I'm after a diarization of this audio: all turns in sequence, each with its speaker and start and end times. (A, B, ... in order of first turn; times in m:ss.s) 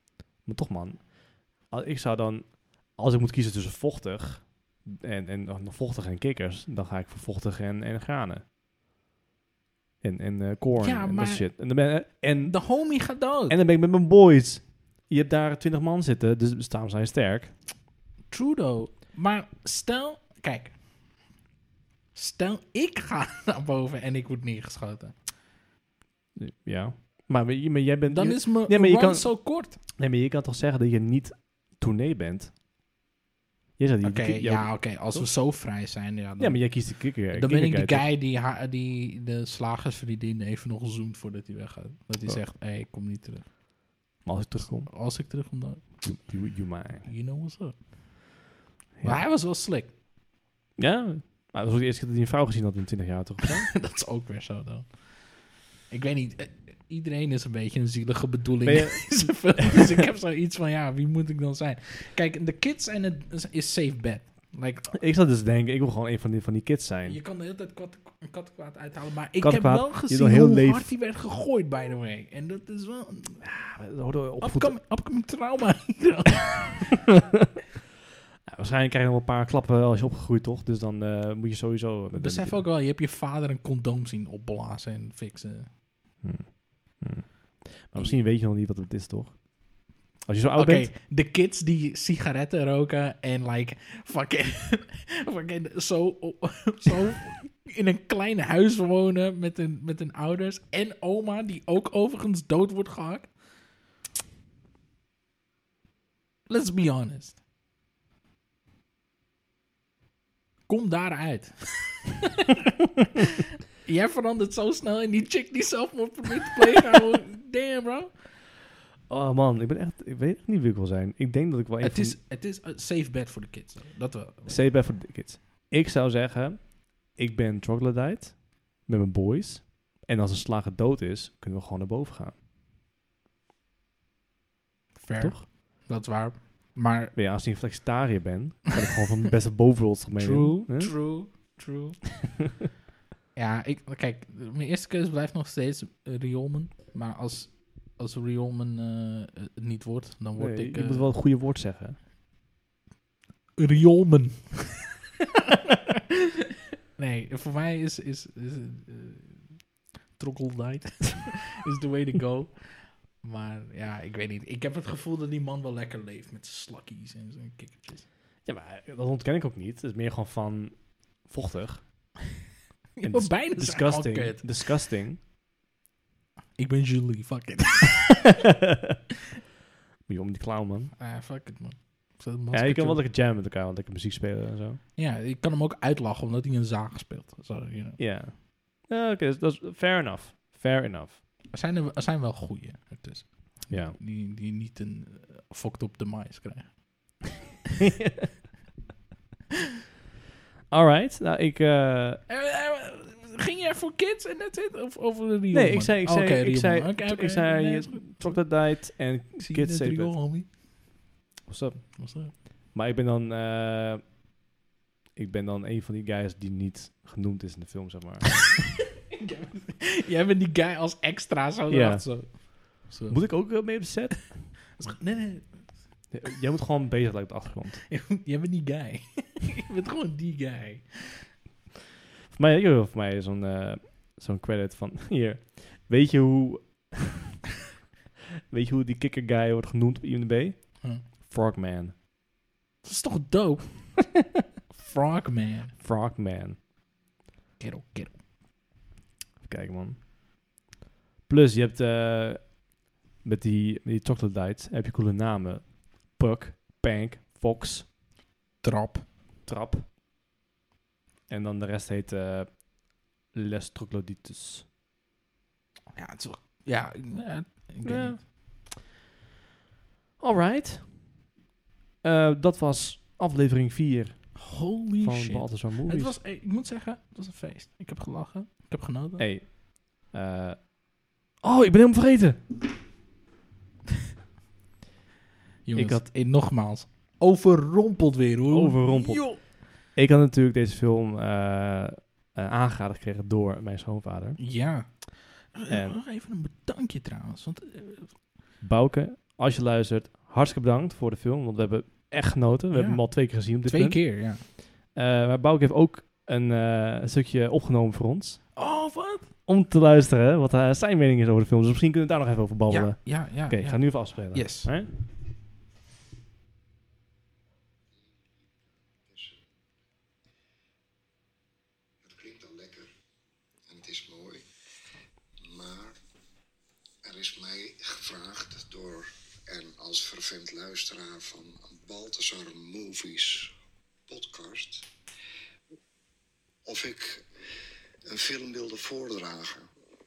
0:00.4-0:08.4 A
0:10.0-0:17.6 A
0:10.8-0:11.6 B
0:12.4-0:13.6 B
0:18.3-0:20.8 B
0:22.1-0:25.2 B
0:26.4-0:32.5 A
0:28.1-0:29.8 B
0:33.8-0:35.3 A
0:34.0-0:43.5 B
0:36.4-0:38.1 A
0:44.2-0:44.9 A
0:44.9-0:45.8 B
0:46.0-0:47.1 A
0:47.0-0:47.8 B
0:49.0-0:49.9 B
0:50.8-0:53.7 A
0:53.4-0:55.1 B
0:55.9-1:04.9 B
0:58.6-0:59.9 A
1:04.9-1:07.2 A
1:07.0-1:13.4 B
1:09.4-1:10.9 A
1:13.4-1:14.8 A
1:14.4-1:17.0 B
1:18.4-1:22.6 A
1:22.1-1:25.7 B
1:26.2-1:29.7 A
1:27.9-1:28.2 B
1:30.2-1:30.9 A
1:30.6-1:43.3 B
1:46.5-1:47.4 B
1:50.7-1:58.2 B
1:59.1-2:02.2 A
2:01.8-2:04.6 B
2:04.4-2:12.4 A
2:15.0-2:17.1 B
2:15.2-2:15.4 A
2:17.1-2:20.9 A
2:20.2-2:22.3 B
2:23.3-2:31.1 B
2:30.4-2:32.0 A
2:33.6-2:36.2 B
2:37.0-2:39.6 B
2:40.2-2:48.0 B
2:48.4-2:51.8 A
2:53.0-2:54.7 B
2:53.0-2:55.2 A
2:56.6-2:58.4 B
2:58.4-2:59.0 A
3:00.1-3:00.9 A
3:01.0-3:03.0 B
3:02.5-3:04.8 A
3:05.0-3:08.0 B
3:08.0-3:11.2 A
3:11.5-3:17.3 B
3:13.7-3:14.0 A
3:17.9-3:18.3 A
3:20.7-3:22.2 A
3:22.3-3:30.5 B
3:25.5-3:30.1 A
3:31.5-3:34.0 A
3:31.9-3:32.3 B
3:35.2-3:38.7 A
3:39.1-3:43.8 B
3:41.7-3:44.5 A
3:44.8-3:45.7 B
3:46.1-3:47.8 A
3:47.9-3:51.3 B
3:52.3-3:57.2 A
3:58.5-4:02.0 A
4:02.8-4:04.2 B
4:04.7-4:05.7 B
4:05.8-4:06.6 A
4:07.6-4:08.2 B
4:09.4-4:10.0 A
4:11.3-4:12.6 A
4:13.2-4:17.9 A
4:18.6-4:19.1 B
4:19.4-4:19.9 A
4:21.3-4:22.7 A
4:23.3-4:24.6 A
4:25.9-4:28.3 B
4:27.8-4:28.2 A
4:30.2-4:31.2 A
4:32.0-4:34.4 A
4:34.4-4:39.3 B
4:35.0-4:36.1 A
4:39.2-4:40.7 A
4:41.4-4:42.4 A
4:45.6-4:49.4 B
4:45.8-4:46.0 A
4:48.5-4:54.4 A
4:54.4-4:58.2 B
4:55.7-4:56.0 A
4:58.6-5:08.5 A
5:02.7-5:04.4 B
5:08.6-5:09.3 B
5:09.4-5:14.9 A
5:12.7-5:14.7 B
5:19.0-5:19.4 C
5:22.0-5:22.9 C
5:23.7-5:24.4 C
5:25.4-5:26.0 C
5:27.0-5:33.5 C
5:34.1-5:34.9 C
5:36.6-5:37.2 C
5:38.0-5:39.7 C